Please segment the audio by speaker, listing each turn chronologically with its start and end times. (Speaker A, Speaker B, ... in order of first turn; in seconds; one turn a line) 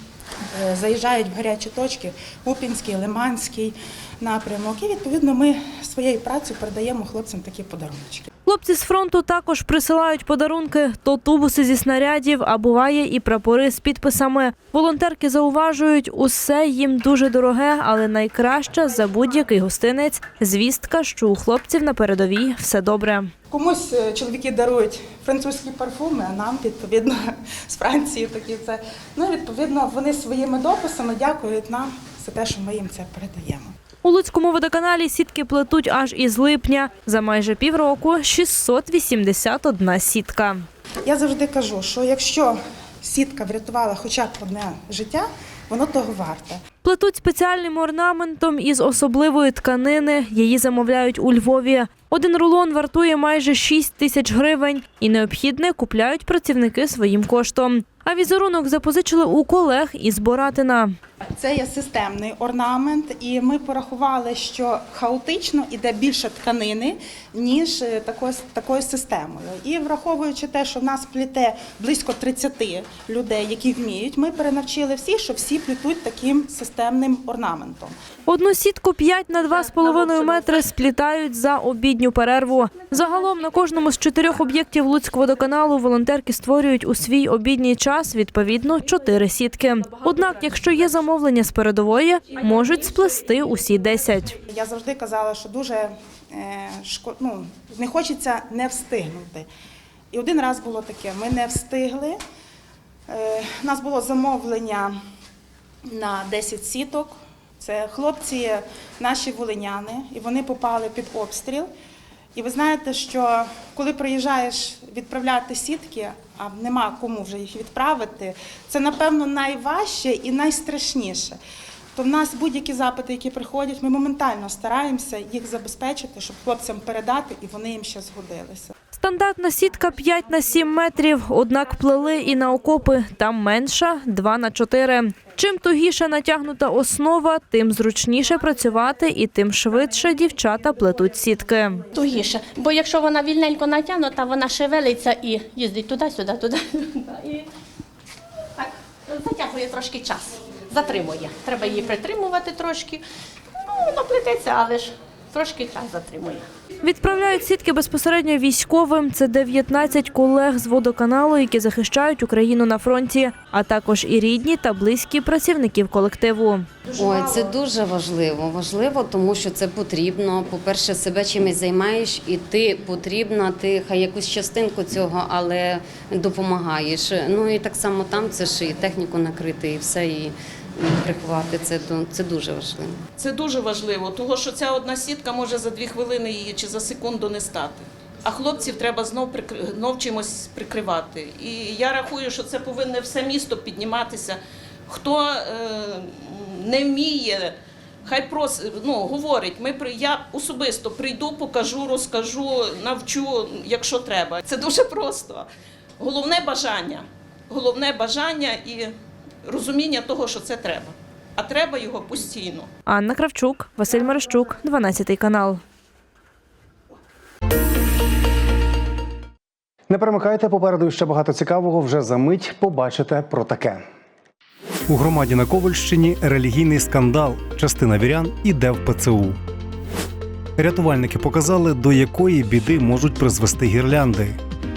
Speaker A: 0.5-8.3
Speaker B: 8.4-23.3
Speaker A: 23.5-33.7
Speaker B: 34.0-40.7
Speaker A: 41.0-46.6
Speaker B: 46.8-60.9
Speaker A: 61.4-77.9
Speaker B: 78.3-94.4
Speaker A: 94.5-99.5
Speaker A: 100.1-102.2
Speaker A: 103.1-105.0
Speaker A: 105.8-111.7
Speaker A: 112.3-121.4
Speaker A: 121.9-128.7
Speaker B: 128.9-141.8
Speaker C: 141.9-147.4
Speaker C: 148.5-153.0
Speaker C: 153.6-156.4
Speaker B: 156.8-166.7
Speaker D: 166.9-183.0
Speaker E: 183.2-197.5
Speaker E: 198.0-205.5
Speaker E: 206.0-208.9
Speaker E: 209.5-212.7
Speaker B: 212.9-215.6
Speaker F: 219.9-223.8
Speaker F: 224.9-229.4
Speaker F: 230.6-234.4